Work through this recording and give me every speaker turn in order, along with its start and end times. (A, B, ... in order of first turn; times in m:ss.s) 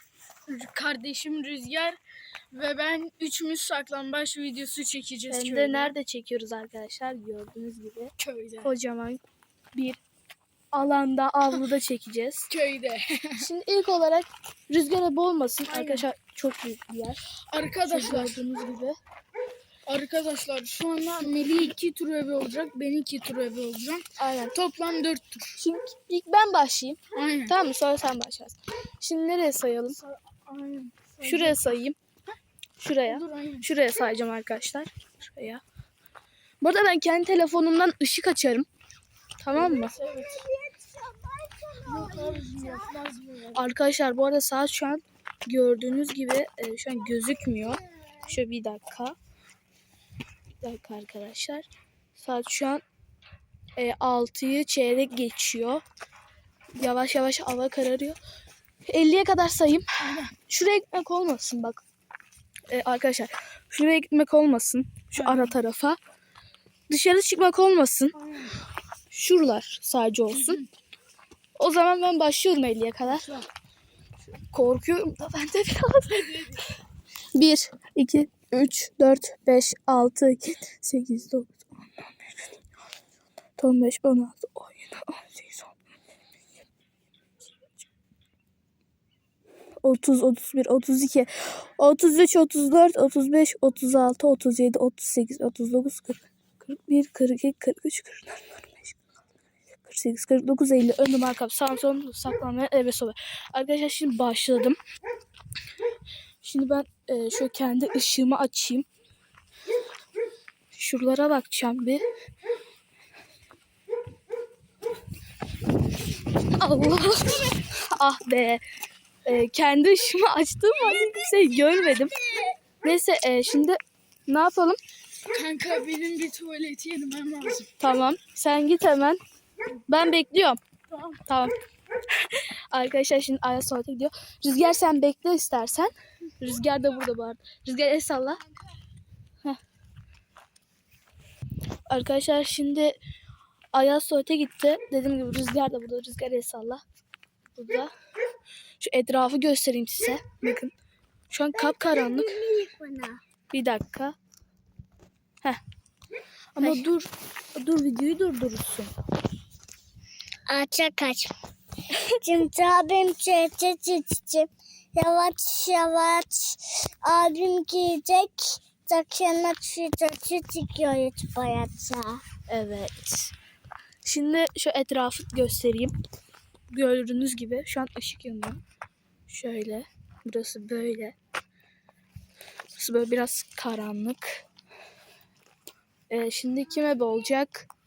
0:00.5-0:02.0 A
0:02.5-0:06.0 A
0:05.3-0:09.2 B
0:08.2-0:08.7 A
0:09.7-0:10.0 B
0:10.7-0:12.5 B
0:12.5-0:13.5 A
0:13.4-0:17.2 B
0:15.7-0:16.1 A
0:17.5-0:18.4 A
0:17.9-0:19.0 B
0:19.9-0:25.6 A
0:24.2-0:24.6 B
0:25.6-0:30.0 B
0:27.2-0:27.6 A
0:29.9-0:31.7 A
0:31.2-0:32.0 B
0:32.8-0:35.6 B
0:33.1-0:33.7 A
0:36.6-0:38.7 B
0:39.4-0:39.9 B
0:39.5-0:40.5 A
0:40.5-0:42.6 C
0:41.8-0:43.7 A
0:43.6-0:49.2 B
0:50.6-0:52.8 B
0:53.8-0:55.8 B
0:56.8-0:58.2 B
0:58.9-1:01.8 B
1:00.0-1:00.3 A
1:02.7-1:06.0 B
1:05.2-1:05.6 A
1:06.9-1:08.2 B
1:08.1-1:08.6 A
1:09.1-1:10.6 B
1:10.3-1:10.6 A
1:11.6-1:13.3 B
1:13.0-1:13.5 A
1:14.5-1:16.6 B
1:17.3-1:22.1 B
1:23.6-1:25.7 B
1:29.8-1:39.0 B
1:39.8-1:44.8 B
1:46.4-1:48.9 B
1:50.7-1:52.0 B
1:56.4-1:58.6 B
1:59.3-2:02.2 B
2:02.8-2:04.8 B
2:05.3-2:07.7 A
2:07.8-2:09.2 B
2:09.9-2:10.6 B
2:10.9-2:11.2 A
2:11.3-2:11.5 B
2:12.2-2:18.4 B
2:21.9-2:23.0 B
2:23.7-2:26.8 B
2:27.6-2:27.9 B
2:28.8-2:30.7 B
2:31.3-2:32.5 B
2:31.6-2:33.2 C
2:33.5-2:34.2 B
2:36.6-2:38.9 B
2:40.5-2:41.4 C
2:41.9-2:42.2 B
2:42.2-2:52.2 C
2:52.5-2:53.3 B
2:54.0-2:55.9 B
2:56.7-2:58.6 B
2:59.3-3:01.2 B
3:02.7-3:04.4 B
3:06.1-3:07.7 B